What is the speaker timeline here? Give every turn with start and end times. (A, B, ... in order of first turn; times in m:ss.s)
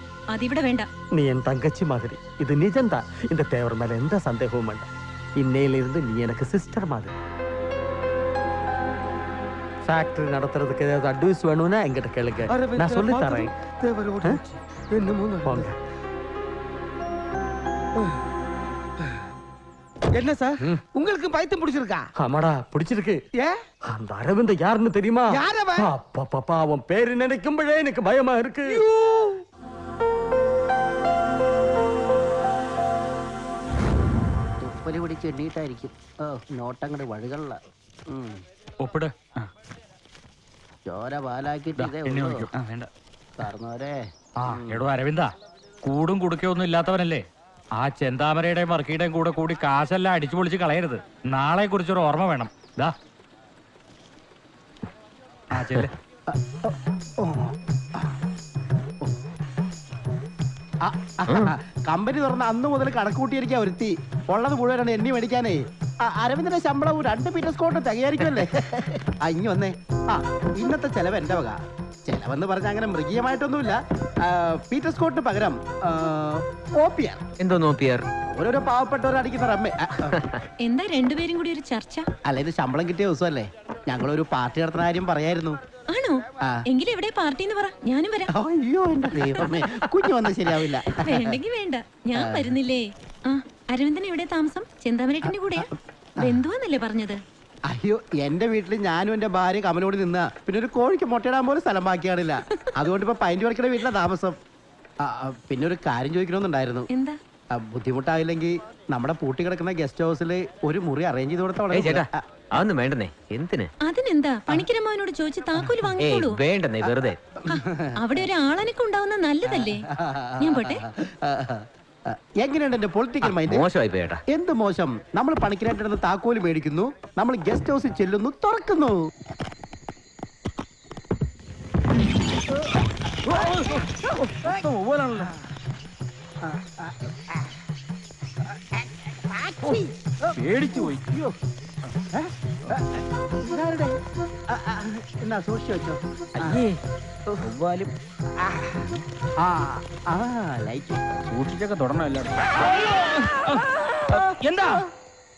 0:00.3-0:00.9 A
0:01.1-0:04.9 B
0:05.4-0:07.1 B
0:09.8-0:13.5 B
0:15.0-0:15.6 C
0:15.4-0:15.7 B
0:20.2-0:22.0 C
0:22.2-0:23.2 B
0:23.9-0:28.8 B
0:25.4-0:25.8 C
0:34.6-0:37.6 D
0:38.8-0:39.4 E
0:40.9-0:42.5 D
0:41.7-0:42.9 E
0:43.4-0:44.0 D
0:44.4-0:45.3 E
0:45.8-0:47.2 E
0:47.8-0:52.9 E
0:55.5-0:55.9 E
0:56.3-0:57.5 D
1:00.8-1:17.2 D
1:01.3-1:01.5 F
1:17.4-1:18.0 F
1:18.4-1:20.2 D
1:20.6-1:22.0 A
1:22.2-1:25.6 D
1:25.9-1:28.3 A
1:28.3-1:31.4 D
1:30.9-1:35.7 A
1:32.2-1:32.5 D
1:36.2-1:37.2 A
1:37.7-1:44.4 D
1:45.0-1:46.9 D
1:46.9-1:47.2 A
1:47.5-1:52.2 D
1:51.7-1:53.7 F
1:53.8-1:56.4 A
1:56.0-1:57.2 F
1:57.5-1:58.2 D
1:57.6-1:59.8 A
1:59.5-2:03.6 D
2:00.4-2:00.8 A
2:03.2-2:04.2 F
2:04.3-2:09.0 D
2:13.3-2:13.7 G
2:14.4-2:15.3 G
2:16.5-2:16.9 D
2:20.4-2:21.1 G
2:22.1-2:22.8 D
2:23.4-2:24.0 D
2:24.5-2:26.6 D
2:26.4-2:26.7 G
2:27.4-2:27.9 G
2:29.4-2:31.0 D
2:31.3-2:34.8 G
2:34.1-2:34.6 D